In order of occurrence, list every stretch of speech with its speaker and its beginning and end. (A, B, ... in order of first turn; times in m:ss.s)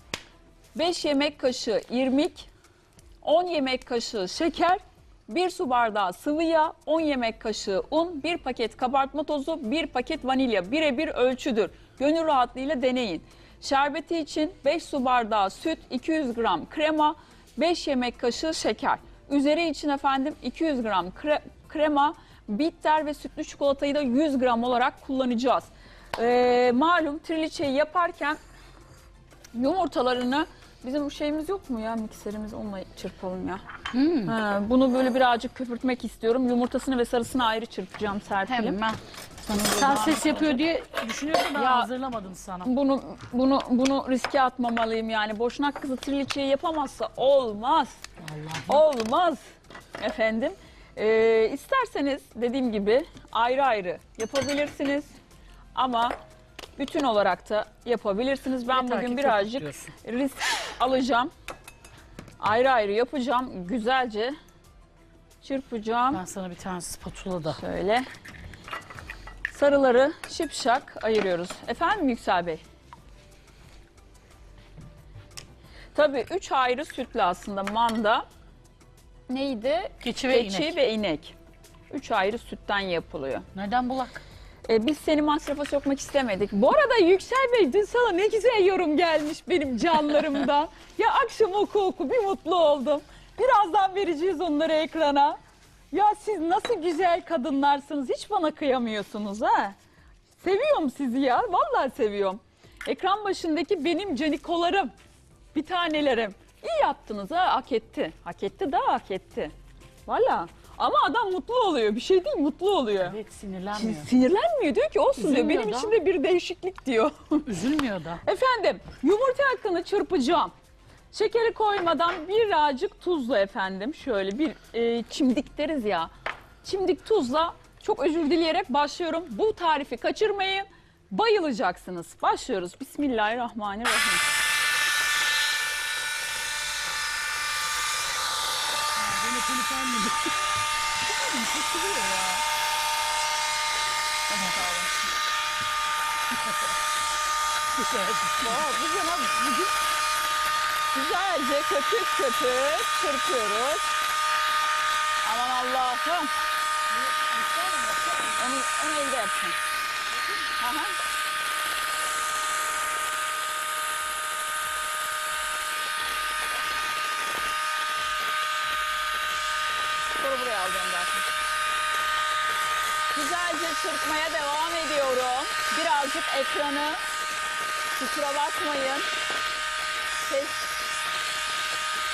0:00.7-0:02.5 A
0:03.2-0:28.4 A
0:29.5-0:33.6 A
0:33.9-0:34.4 B
0:34.2-0:38.8 A
0:38.4-0:39.0 B
0:39.4-0:40.6 A
0:39.7-0:42.7 B
0:41.5-0:41.9 A
0:42.6-0:48.0 A
0:48.2-0:48.8 B
0:48.7-0:49.4 A
0:50.0-0:55.1 A
0:55.7-0:56.1 A
0:56.8-1:01.3 A
0:58.7-0:59.9 B
1:02.4-1:04.3 A
1:05.4-1:06.2 A
1:06.1-1:07.6 B
1:07.5-1:08.0 A
1:09.5-1:12.6 A
1:15.9-1:18.2 A
1:19.3-1:21.3 A
1:20.0-1:20.8 B
1:21.9-1:23.5 A
1:23.5-1:24.2 B
1:24.6-1:35.4 A
1:35.9-1:39.8 A
1:40.4-1:44.9 A
1:45.5-1:49.5 A
1:50.1-1:53.2 A
1:53.0-1:54.1 B
1:53.7-1:57.5 A
1:55.2-1:56.0 B
1:57.4-1:58.2 B
1:58.2-2:00.5 A
2:01.1-2:06.1 A
2:06.6-2:14.2 A
2:19.0-2:20.3 B
2:21.0-2:22.4 A
2:24.3-2:24.9 A
2:27.7-2:28.6 B
2:28.4-2:29.7 A
2:30.9-2:33.9 A
2:35.2-2:36.3 A
2:37.0-2:38.4 B
2:38.3-2:39.6 A
2:40.4-2:41.0 A
2:50.1-2:51.3 A
2:53.1-2:57.0 A
2:57.9-2:59.0 A
3:00.2-3:00.7 A